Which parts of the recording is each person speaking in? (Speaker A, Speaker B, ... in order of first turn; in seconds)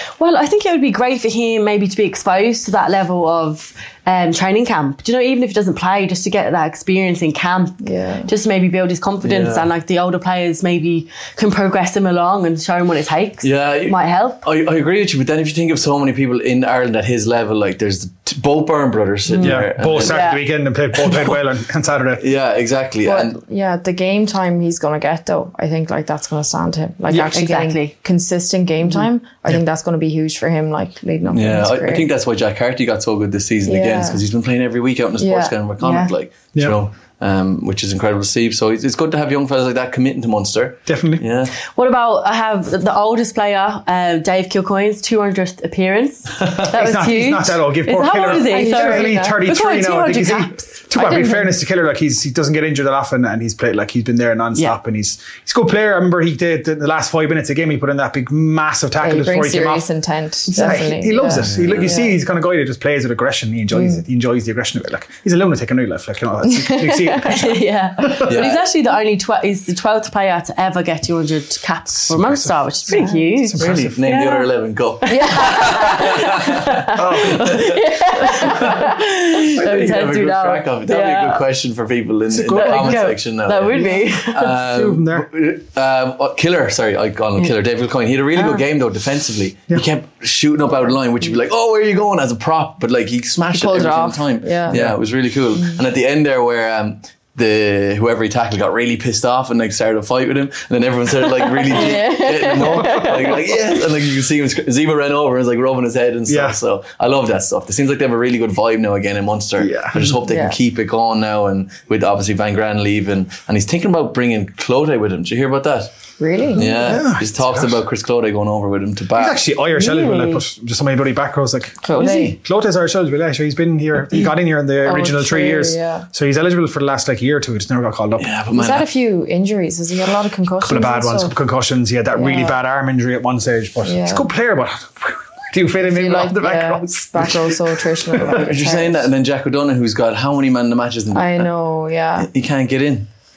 Speaker A: 0.2-14.4, 19.3-20.4, 27.3-27.9, 35.8-36.1, 41.6-51.2, 67.2-74.5, 75.0-81.4, 82.6-84.6, 119.8-120.4
Speaker B: 7.8-8.3, 23.1-32.1, 33.6-34.2, 35.2-35.5, 48.5-49.4, 51.0-51.5, 59.0-62.1, 63.7-64.0, 66.7-66.9, 72.9-73.3, 75.1-75.6, 93.5-94.8, 101.7-103.4, 110.3-110.6, 116.2-117.0, 121.8-122.4, 124.8-126.1, 128.5-131.3, 132.2-132.6, 133.8-134.3, 135.8-139.1, 141.1-142.3
Speaker C: 9.2-9.7, 13.4-20.3, 22.2-23.4, 31.3-41.5, 61.4-61.9, 68.2-68.6, 73.6-115.9, 116.5-119.4, 128.2-128.9, 138.3-141.5, 142.2-143.1
Speaker D: 19.4-22.2, 27.1-27.4, 40.9-41.2, 46.7-59.9, 60.5-68.4, 71.9-74.0, 76.9-77.8, 82.3-83.1, 84.5-85.3, 94.7-95.0, 106.3-106.6, 109.6-110.1, 116.8-117.8, 119.2-128.3, 130.6-138.4